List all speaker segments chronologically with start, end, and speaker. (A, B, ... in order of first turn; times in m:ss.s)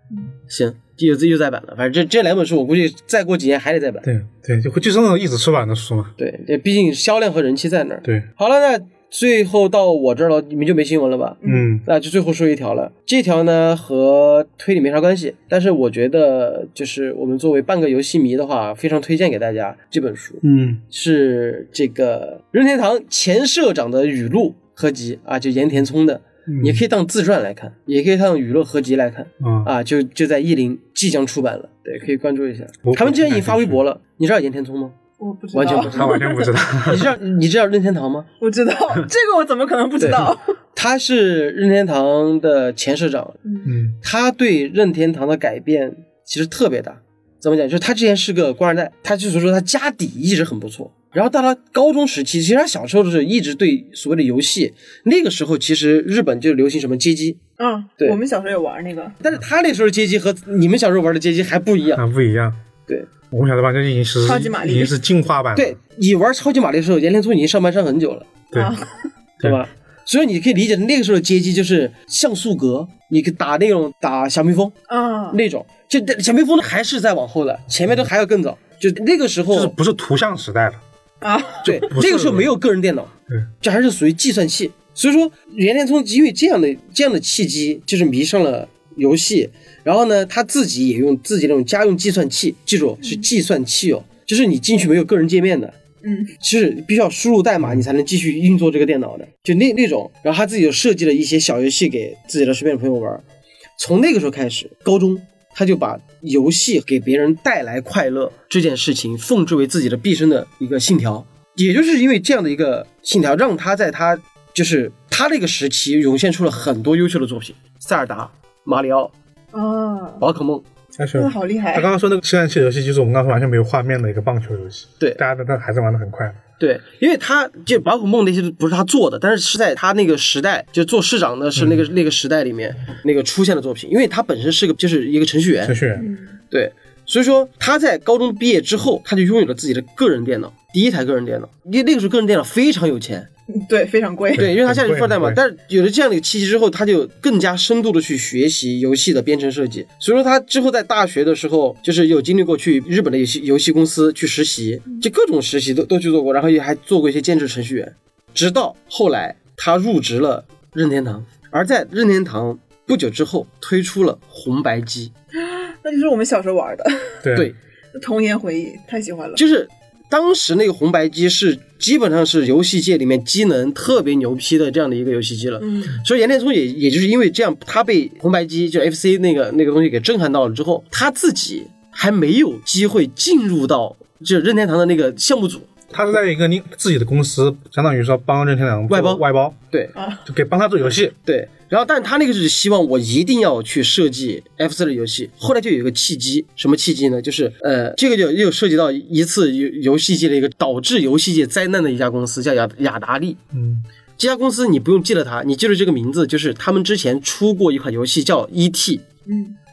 0:00.5-0:04.1 A
0:04.0-0:06.1 B
0:06.2-0:35.0 A
0:11.4-0:11.7 C
0:11.4-0:11.8 B
0:20.4-0:20.8 B
0:26.5-0:26.8 B
0:29.4-0:29.7 B
0:32.8-0:33.8 B
0:35.2-0:36.6 C
0:35.5-0:36.2 A
0:35.7-0:37.1 B
0:36.8-0:38.3 A
0:38.4-0:40.5 C
0:40.0-0:43.4 A
0:43.4-0:43.7 C
0:43.6-0:44.0 B
0:44.0-0:57.4 A
0:57.6-0:59.2 C
0:59.2-1:02.0 A
1:02.0-1:02.6 B
1:03.3-1:05.8 B
1:04.2-1:05.0 C
1:05.6-1:08.3 A
1:08.5-1:09.0 C
1:09.4-1:14.8 A
1:14.9-1:15.4 C
1:15.3-1:19.7 A
1:19.5-1:20.8 B
1:21.2-1:21.9 C
1:21.6-1:22.5 B
1:21.6-1:35.8 A
1:36.0-1:36.3 C
1:36.4-1:43.2 A
1:43.8-1:59.1 A
1:59.5-2:00.2 C
2:00.2-2:00.6 A
2:01.0-2:06.4 B
2:01.2-2:01.9 C
2:06.6-2:15.8 A
2:11.6-2:11.8 B
2:15.6-2:16.1 B
2:16.0-2:16.3 C
2:16.5-2:23.3 A
2:23.5-2:24.5 C
2:24.4-2:25.4 B
2:24.4-2:45.1 A
2:45.4-2:47.2 C
2:47.2-2:47.5 B
2:47.9-2:49.4 C
2:49.4-3:05.7 A
2:55.6-2:56.0 C
3:05.9-3:09.6 B
3:08.9-3:10.0 A
3:10.0-3:10.2 C
3:10.3-3:11.2 B
3:11.2-3:23.4 A
3:23.5-3:23.8 B
3:24.2-3:29.0 A
3:29.3-3:29.6 C